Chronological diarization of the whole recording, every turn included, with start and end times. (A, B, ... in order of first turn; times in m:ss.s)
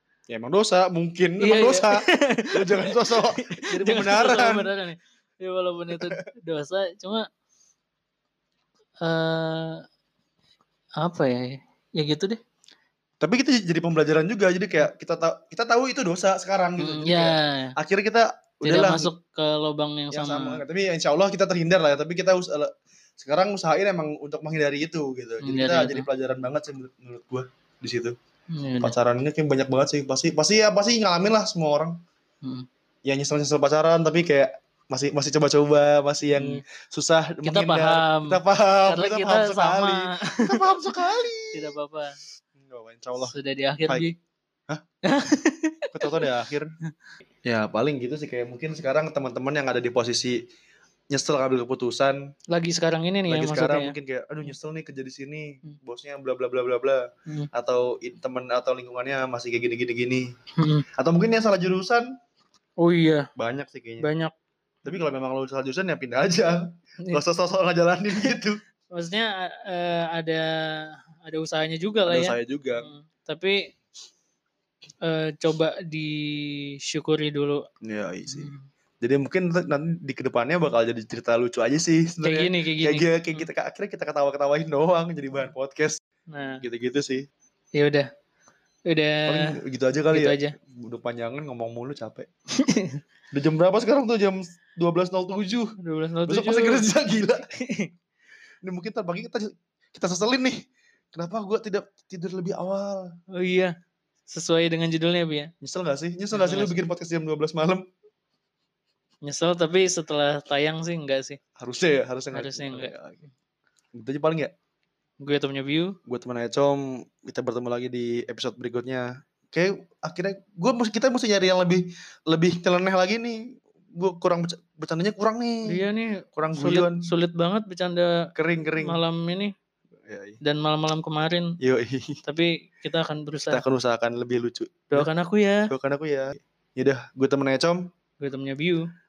0:00.3-0:04.7 A
0:01.4-0:07.3 B
0:09.0-0:09.8 B
0:11.0-0:12.4 B
0:13.2-0:19.1 A
0:16.8-0:17.8 B
0:18.6-0:20.6 B
0:20.1-0:28.2 A
0:25.4-0:26.1 B
0:28.5-0:29.0 B
0:28.8-0:32.0 A
0:33.0-0:41.7 A
0:37.4-0:41.0 B
0:41.5-0:42.2 B
0:42.6-0:43.4 A
0:43.2-0:44.2 B
0:45.0-0:46.3 B
0:45.9-0:46.7 A
0:47.4-0:50.4 A
0:51.1-0:52.3 A
0:52.5-0:54.0 B
0:53.3-1:00.3 A
1:00.6-1:00.8 B
1:00.9-1:02.1 A
1:02.8-1:03.3 B
1:03.4-1:04.1 A
1:04.0-1:04.3 B
1:04.8-1:08.6 A
1:08.9-1:13.7 B
1:12.1-1:12.9 A
1:15.0-1:17.6 B
1:17.8-1:26.0 A
1:18.3-1:18.6 B
1:22.2-1:23.4 B
1:26.3-1:26.6 B
1:26.6-1:27.3 A
1:27.8-1:28.1 B
1:28.9-1:29.6 B
1:29.3-1:32.3 A
1:30.1-1:30.5 B
1:32.5-1:33.0 B
1:33.3-1:37.5 A
1:35.8-1:36.9 B
1:37.5-1:37.9 B
1:38.6-1:43.1 A
1:43.3-1:43.7 B
1:44.3-1:45.5 B
1:45.6-1:47.8 A
1:46.3-1:46.8 B
1:49.2-1:51.4 B
1:51.6-1:53.3 A
1:52.3-1:52.9 B
1:53.9-1:54.5 A
1:55.2-1:56.0 B
1:56.1-2:05.8 A
2:05.7-2:08.3 B
2:06.4-2:07.0 A
2:08.4-2:09.0 A
2:08.8-2:09.5 B
2:10.0-2:10.4 A
2:10.4-2:11.6 B
2:11.6-2:12.2 A
2:12.3-2:13.6 B
2:13.5-2:15.1 A
2:14.9-2:15.7 B
2:15.7-2:17.9 A
2:18.2-2:18.9 B